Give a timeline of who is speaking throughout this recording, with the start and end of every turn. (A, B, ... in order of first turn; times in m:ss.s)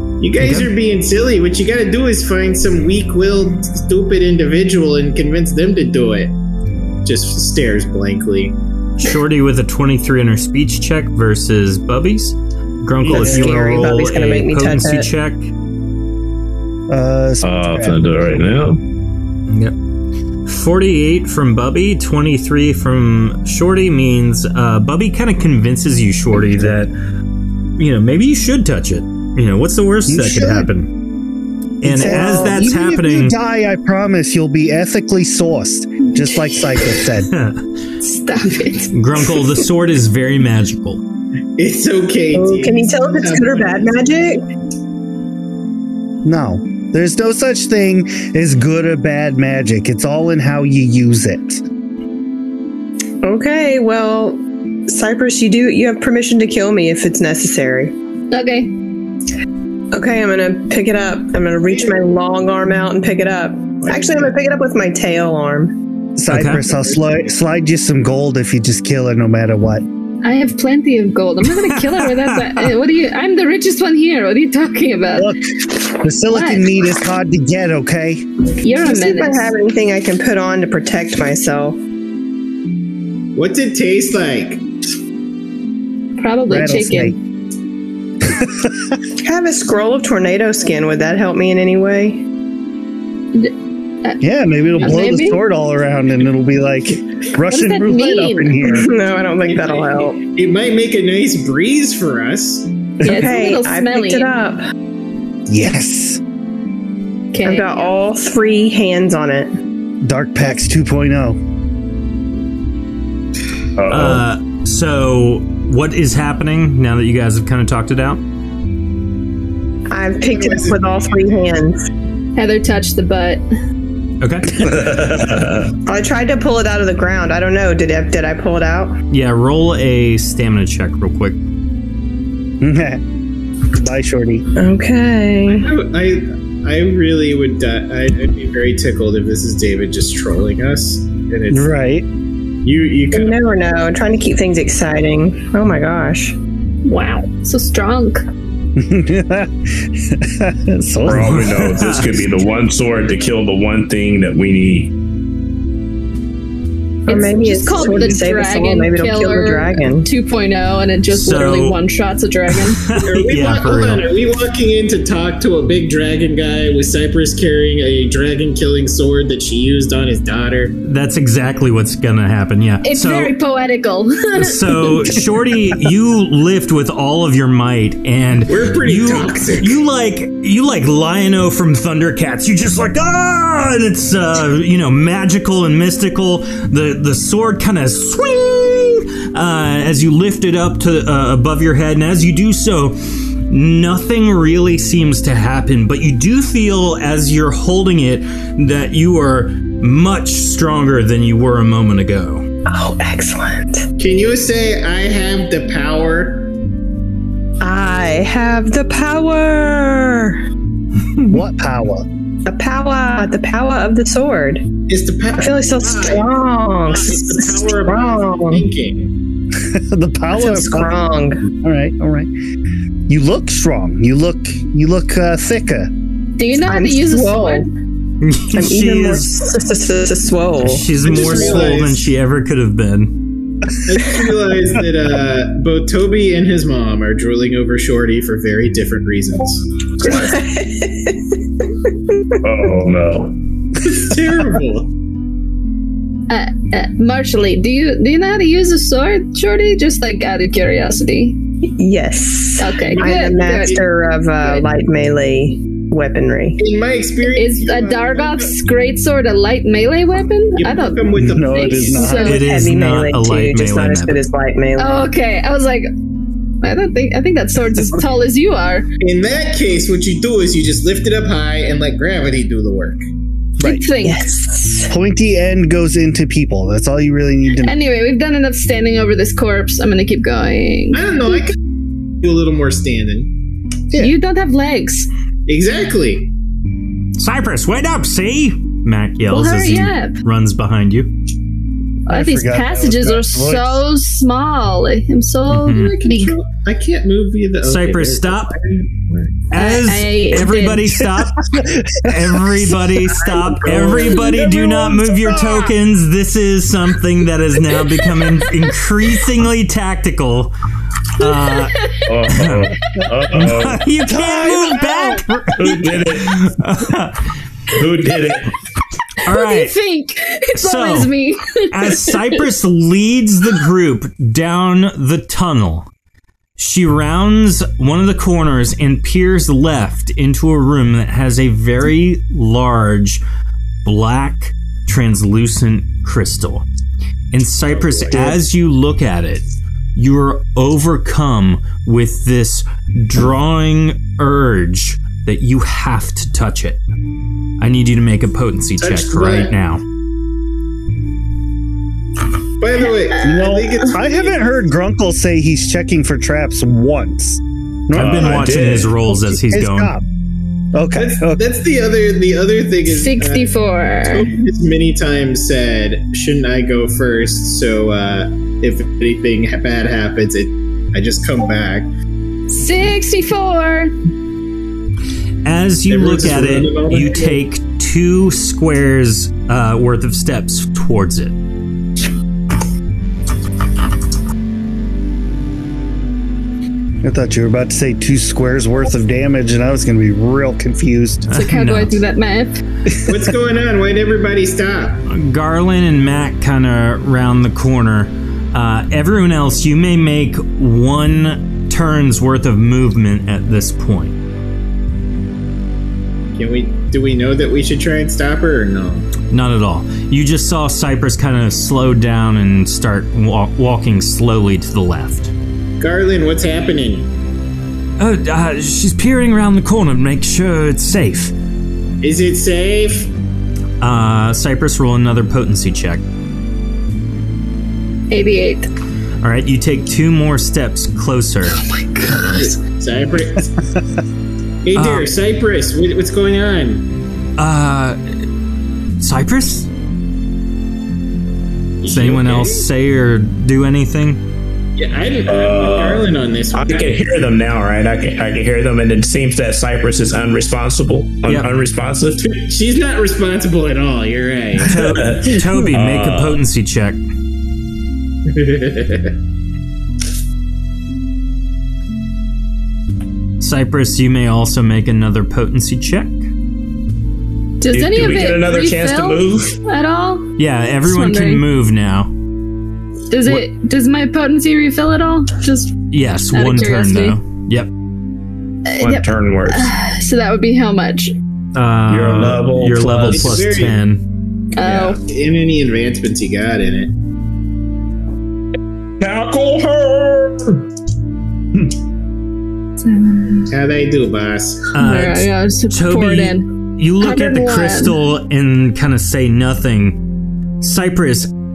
0:00.2-0:06.4 A
0:00.4-0:00.7 B
0:07.0-0:08.6 A
0:09.0-0:15.5 B
0:13.1-0:15.1 C
0:13.1-0:13.9 D
0:16.9-0:18.0 D
0:17.4-0:18.8 E
0:19.5-0:19.8 B
0:20.5-0:26.9 B
0:27.8-0:30.9 B
0:30.1-0:30.7 D
0:31.8-0:33.4 B
0:31.8-0:37.3 D
0:32.0-0:32.4 C
0:36.3-0:36.8 F
0:37.3-0:37.6 B
0:38.0-0:38.9 F
0:38.9-0:41.0 B
0:41.6-0:44.0 A
0:42.3-0:44.4 C
0:46.2-0:51.6 D
0:53.2-0:57.9 C
0:58.3-0:58.7 F
0:59.9-1:05.7 C
1:01.7-1:02.0 A
1:03.8-1:04.4 A
1:06.2-1:09.8 D
1:06.3-1:06.6 B
1:06.7-1:07.0 A
1:10.2-1:15.3 F
1:11.5-1:12.7 B
1:15.2-1:18.2 D
1:16.3-1:16.7 F
1:18.6-1:19.5 F
1:18.8-1:21.8 C
1:23.4-1:24.6 A
1:26.2-1:27.2 F
1:26.5-1:27.2 D
1:28.2-1:28.8 D
1:29.2-1:32.2 C
1:34.2-1:38.9 D
1:34.8-1:35.4 F
1:37.5-1:38.7 F
1:38.6-1:40.2 C
1:39.4-1:42.7 A
1:43.0-1:43.3 D
1:43.0-1:44.3 F
1:43.1-1:44.6 C
1:45.5-1:46.2 D
1:47.3-1:47.9 F
1:47.4-1:49.6 C
1:50.0-1:51.4 D
1:53.8-1:54.2 E
1:53.9-1:58.2 B
1:59.9-2:01.8 C
2:00.2-2:01.5 A
2:02.4-2:03.4 F
2:04.2-2:04.5 B
2:04.6-2:05.7 E
2:05.9-2:09.0 C
2:09.1-2:11.4 B
2:12.6-2:13.0 D
2:13.7-2:14.5 D
2:14.6-2:15.7 C
2:15.6-2:21.7 A
2:21.5-2:22.1 D
2:22.6-2:23.4 A
2:23.1-2:26.4 C
2:26.8-2:28.2 F
2:28.8-2:31.5 D
2:31.0-2:34.9 E
2:31.1-2:32.3 B
2:37.1-2:40.1 C
2:37.1-2:42.8 F
2:41.1-2:41.8 B
2:42.5-2:44.1 B
2:43.0-2:50.8 A
2:50.8-2:53.3 B
2:52.8-2:55.0 F
2:54.4-3:13.0 B
2:58.5-2:59.8 A
3:13.5-3:22.5 B
3:22.7-3:23.9 C
3:24.0-3:26.5 A
3:27.6-3:30.4 C
3:31.3-3:32.1 D
3:32.5-3:34.7 C
3:34.9-3:39.1 A
3:35.4-3:38.7 C
3:39.6-3:40.9 D
3:40.3-3:41.4 C
3:41.4-3:42.3 D
3:43.1-3:45.9 D
3:46.4-3:47.7 F
3:46.6-3:47.7 C
3:48.2-3:49.5 B
3:48.5-3:51.7 C
3:50.6-3:53.2 B
3:51.0-3:52.1 A
3:53.8-4:00.4 A
4:00.0-4:01.3 C
4:02.4-4:03.3 E
4:03.8-4:04.9 A
4:06.3-4:11.4 F
4:11.7-4:16.6 C
4:12.6-4:13.8 F
4:16.6-4:18.5 A
4:17.3-4:22.4 F
4:20.6-4:22.2 A
4:21.1-4:22.4 D
4:22.2-4:25.1 C
4:22.2-4:24.2 B
4:24.8-4:25.9 F
4:26.6-4:28.9 F
4:29.0-4:33.0 A
4:33.6-4:33.9 D
4:33.6-4:34.3 F
4:34.0-4:34.9 C
4:34.9-4:37.8 D
4:37.6-4:41.4 F
4:40.9-4:41.6 A
4:42.2-4:43.3 A
4:43.9-4:45.1 F
4:45.5-4:46.3 A
4:47.2-4:51.1 B
4:49.3-4:50.2 F
4:52.1-4:53.8 D
4:52.1-4:56.4 F
4:55.5-4:55.9 B
4:55.7-4:59.4 A
4:57.6-4:58.6 B
4:59.5-5:10.5 B
4:59.5-5:00.8 F
5:01.0-5:05.7 D
5:03.7-5:04.1 A
5:11.2-5:12.7 B
5:11.2-5:12.1 F
5:12.1-5:13.9 E
5:13.3-5:17.2 B
5:14.1-5:15.2 D
5:15.6-5:16.4 E
5:17.7-5:18.5 E
5:19.2-5:19.7 B
5:19.2-5:22.4 F
5:20.6-5:21.1 B
5:21.7-5:25.9 B
5:26.6-5:33.2 B
5:33.8-5:36.7 B
5:37.3-5:39.4 B
5:37.7-5:38.4 E
5:40.0-5:46.8 B
5:47.6-5:49.8 B
5:48.8-5:49.5 A
5:52.6-5:54.5 A
5:53.2-5:58.6 D
5:57.9-5:59.9 B
5:58.0-5:58.9 E
5:59.2-6:00.1 D
6:00.7-6:01.4 D
6:01.0-6:11.9 A
6:02.9-6:04.3 F
6:12.5-6:13.9 F
6:15.4-6:21.4 B
6:15.9-6:17.4 A
6:27.0-6:31.3 D
6:31.3-6:32.0 B
6:31.3-6:32.6 F
6:33.0-6:35.0 A
6:35.1-6:44.2 B
6:46.4-6:49.1 A
6:49.3-6:55.3 B
6:55.8-6:57.1 A
6:58.0-7:01.3 B
7:02.0-7:03.1 A
7:03.8-7:06.0 B
7:08.1-7:08.7 F
7:09.2-7:12.4 B
7:12.2-7:13.5 A
7:14.6-7:16.8 A
7:14.7-7:15.1 B
7:17.4-7:18.0 B
7:19.0-7:19.7 B
7:21.8-7:22.7 A
7:21.9-7:24.2 B
7:24.8-7:26.9 A
7:25.3-7:32.2 E
7:31.3-7:31.5 B
7:32.2-7:34.8 A
7:34.6-7:37.0 B
7:34.8-7:36.4 E
7:38.3-7:39.1 A
7:43.4-7:46.3 B
7:47.6-7:50.3 F
7:47.7-7:49.6 E
7:50.4-7:52.1 B
7:50.8-7:51.4 F
7:53.1-7:55.8 F
7:55.9-7:57.7 B
7:56.3-7:57.2 F
7:58.7-8:01.1 F
7:58.8-7:59.7 E
8:01.6-8:04.0 B
8:01.9-8:03.4 E
8:03.1-8:03.8 A
8:04.6-8:05.0 F
8:04.6-8:06.9 A
8:09.0-8:10.6 E
8:12.8-8:13.5 F
8:13.5-8:14.7 A
8:14.8-8:20.0 B
8:14.8-8:16.5 F
8:17.0-8:18.0 F
8:20.6-8:21.3 B